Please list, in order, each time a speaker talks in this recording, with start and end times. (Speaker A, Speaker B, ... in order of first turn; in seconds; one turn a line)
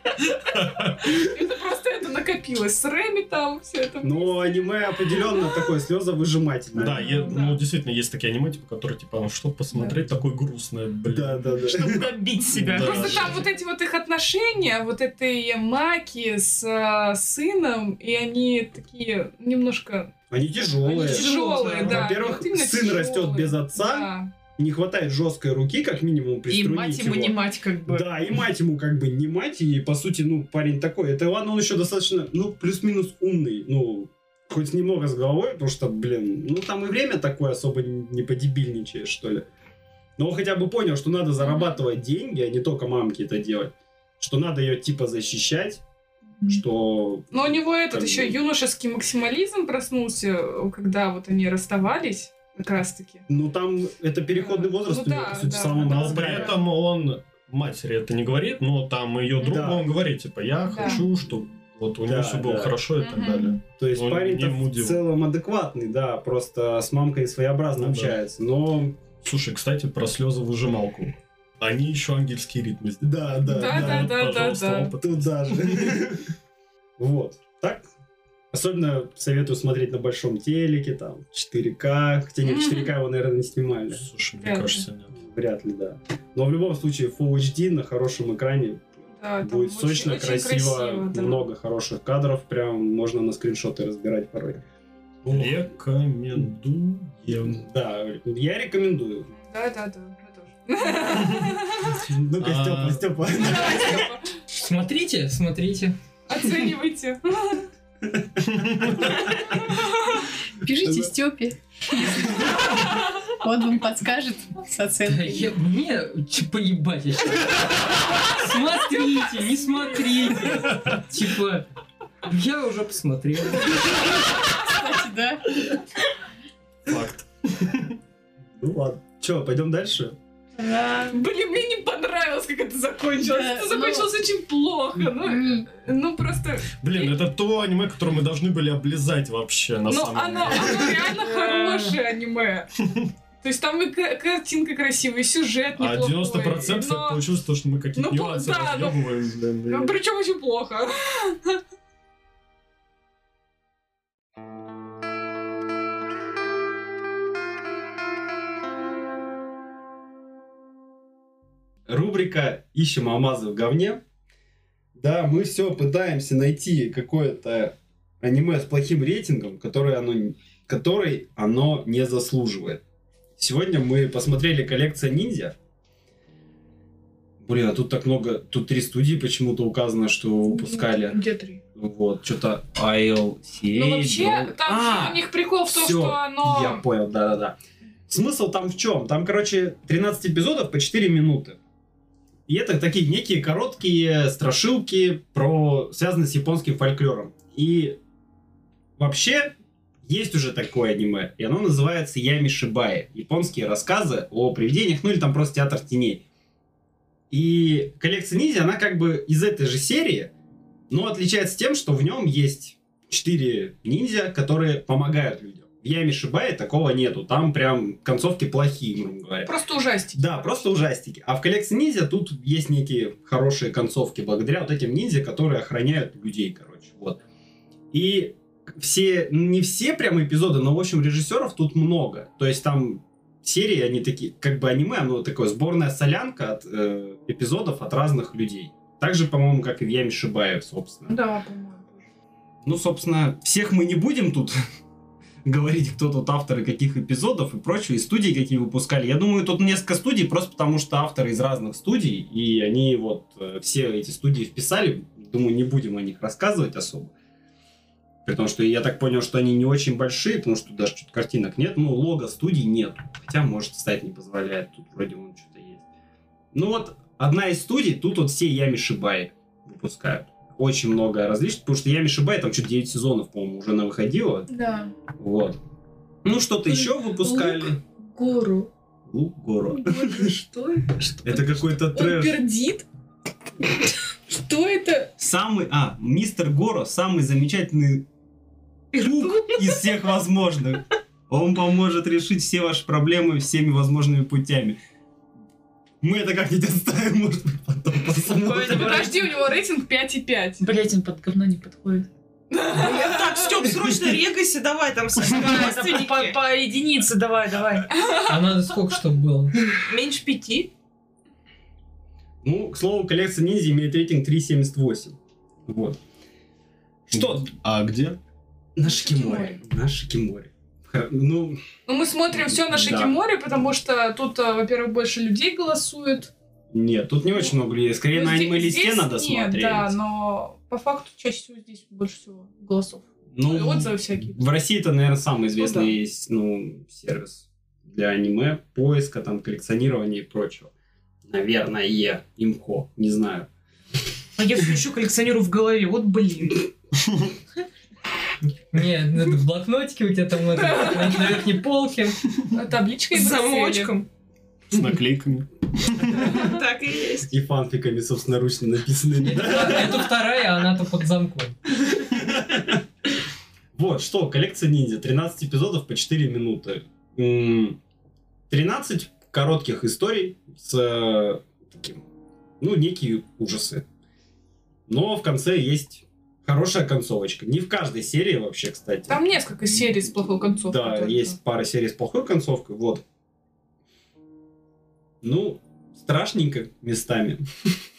Speaker A: 0.3-1.2
Speaker B: 1.1-5.6
Speaker C: 4.0-7.4
Speaker A: 6.8-11.7
Speaker B: 6.9-7.6
Speaker C: 11.1-12.1
Speaker D: 11.7-13.4
Speaker A: 12.5-13.4
Speaker B: 12.8-24.3
Speaker C: 20.3-27.3
Speaker D: 20.9-22.1
Speaker E: 26.5-28.3
Speaker C: 27.9-39.5
Speaker C: 40.2-45.8
Speaker B: 41.4-41.8
Speaker C: 46.5-48.4
Speaker B: 47.3-53.2
Speaker C: 53.3-56.6
Speaker B: 54.4-56.5
Speaker A: 55.8-65.0
Speaker C: 59.4-59.9
Speaker B: 60.6-61.0
Speaker C: 62.1-62.7
Speaker B: 63.0-63.6
Speaker C: 63.8-69.0
Speaker A: 67.8-68.1
Speaker A: 69.2-76.0
Speaker C: 73.0-74.1
Speaker B: 73.5-74.9
Speaker C: 75.0-76.2
Speaker C: 77.0-77.8
Speaker C: 78.5-84.0
Speaker B: 82.4-82.9
Speaker A: 83.9-85.1
Speaker B: 84.4-84.8
Speaker C: 85.1-88.8
Speaker B: 89.2-91.4
Speaker C: 89.4-94.6
Speaker C: 95.2-95.6
Speaker A: 95.3-97.6
Speaker C: 97.4-99.3
Speaker B: 99.4-101.9
Speaker C: 101.9-104.1
Speaker A: 102.4-103.1
Speaker B: 103.3-104.3
Speaker F: 104.5-106.0
Speaker B: 106.3-107.7
Speaker C: 108.0-109.4
Speaker A: 108.4-109.2
Speaker G: 110.6-112.4
Speaker C: 110.8-111.1
Speaker G: 113.4-115.5
Speaker F: 115.0-117.6
Speaker F: 118.2-121.7
Speaker F: 122.2-123.9
Speaker G: 124.4-125.6
Speaker A: 126.9-127.9
Speaker C: 128.6-130.2
Speaker G: 130.6-131.2
Speaker B: 131.1-137.1
Speaker G: 133.3-134.1
Speaker G: 135.1-135.7
Speaker A: 136.8-141.1
Speaker B: 139.9-142.7
Speaker G: 141.2-141.9
Speaker A: 142.8-143.1
Speaker B: 143.4-147.2
Speaker A: 145.8-150.0
Speaker B: 147.9-149.0
Speaker B: 149.7-151.6
Speaker C: 161.9-164.0
Speaker C: 164.9-172.8
Speaker C: 173.4-175.5
Speaker C: 177.4-181.2
Speaker B: 180.5-181.6
Speaker C: 181.7-187.6
Speaker B: 183.7-186.8
Speaker C: 188.1-191.6
Speaker C: 192.5-198.0
Speaker C: 199.0-206.2
Speaker C: 207.3-210.3
Speaker C: 210.9-219.5
Speaker B: 219.4-220.6
Speaker C: 220.1-227.2
Speaker C: 227.9-241.2
Speaker B: 241.1-242.0
Speaker C: 242.6-244.6
Speaker C: 245.4-257.1
Speaker C: 258.2-265.8
Speaker C: 266.5-274.5
Speaker B: 274.5-274.9
Speaker C: 275.1-275.6
Speaker C: 276.2-277.8
Speaker B: 276.7-278.7
Speaker C: 279.1-280.3
Speaker B: 279.7-282.9
Speaker C: 281.2-282.4
Speaker B: 283.8-285.1
Speaker C: 285.2-288.1
Speaker D: 288.9-289.8
Speaker C: 289.0-294.8
Speaker C: 296.0-299.2
Speaker B: 298.5-300.7
Speaker E: 298.6-299.0
Speaker E: 300.6-302.1
Speaker B: 302.5-303.5
Speaker D: 302.8-306.4
Speaker C: 303.7-304.1
Speaker E: 305.2-307.9
Speaker B: 307.9-308.4
Speaker F: 308.2-309.6
Speaker D: 309.9-310.7
Speaker C: 312.4-315.1
Speaker C: 315.7-316.0
Speaker C: 317.1-317.5
Speaker A: 317.1-318.2
Speaker C: 318.8-321.6
Speaker B: 318.8-319.6
Speaker B: 321.9-326.3
Speaker C: 322.3-323.1
Speaker C: 326.7-329.9
Speaker B: 328.1-334.5
Speaker C: 333.3-340.7
Speaker B: 335.6-335.9
Speaker C: 341.2-343.5
Speaker D: 344.4-346.7
Speaker F: 348.7-352.2
Speaker B: 350.6-351.4
Speaker B: 352.5-353.9
Speaker D: 353.1-354.1
Speaker A: 354.7-356.5
Speaker D: 356.2-357.3
Speaker C: 357.3-360.1
Speaker F: 359.2-361.6
Speaker C: 362.0-362.8
Speaker C: 363.7-367.8
Speaker C: 368.5-372.0
Speaker C: 372.6-373.8
Speaker C: 374.9-379.2
Speaker B: 379.1-381.4
Speaker C: 380.7-383.0
Speaker C: 385.2-387.4